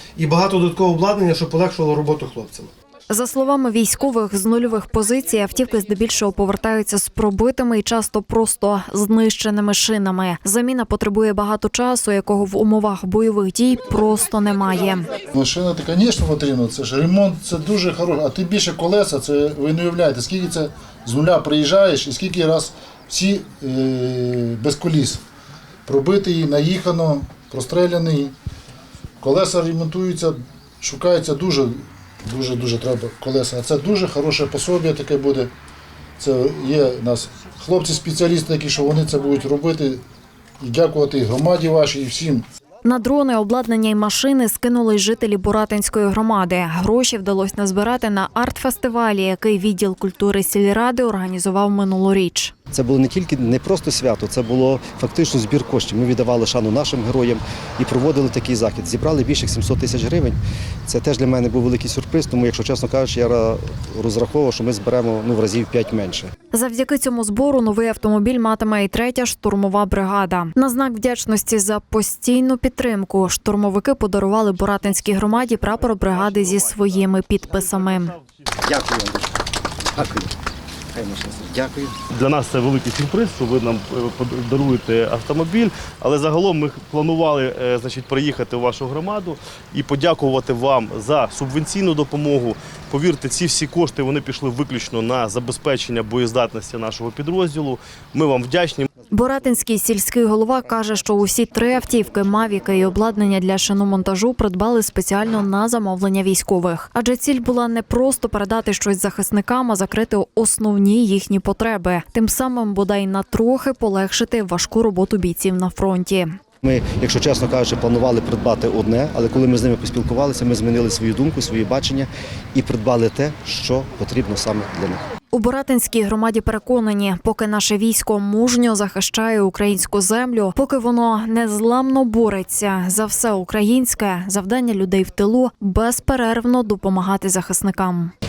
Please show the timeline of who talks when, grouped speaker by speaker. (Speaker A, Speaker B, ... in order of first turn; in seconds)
Speaker A: 0.1-2.7
Speaker B: 3.1-15.1, 42.8-52.5, 66.5-78.1, 99.1-116.4, 125.3-138.1
Speaker C: 15.3-25.2, 25.9-28.3, 29.2-35.5, 36.2-40.0, 40.6-42.4
Speaker D: 52.7-66.3, 78.6-80.3, 80.9-82.0, 116.6-125.0
Speaker E: 82.1-98.9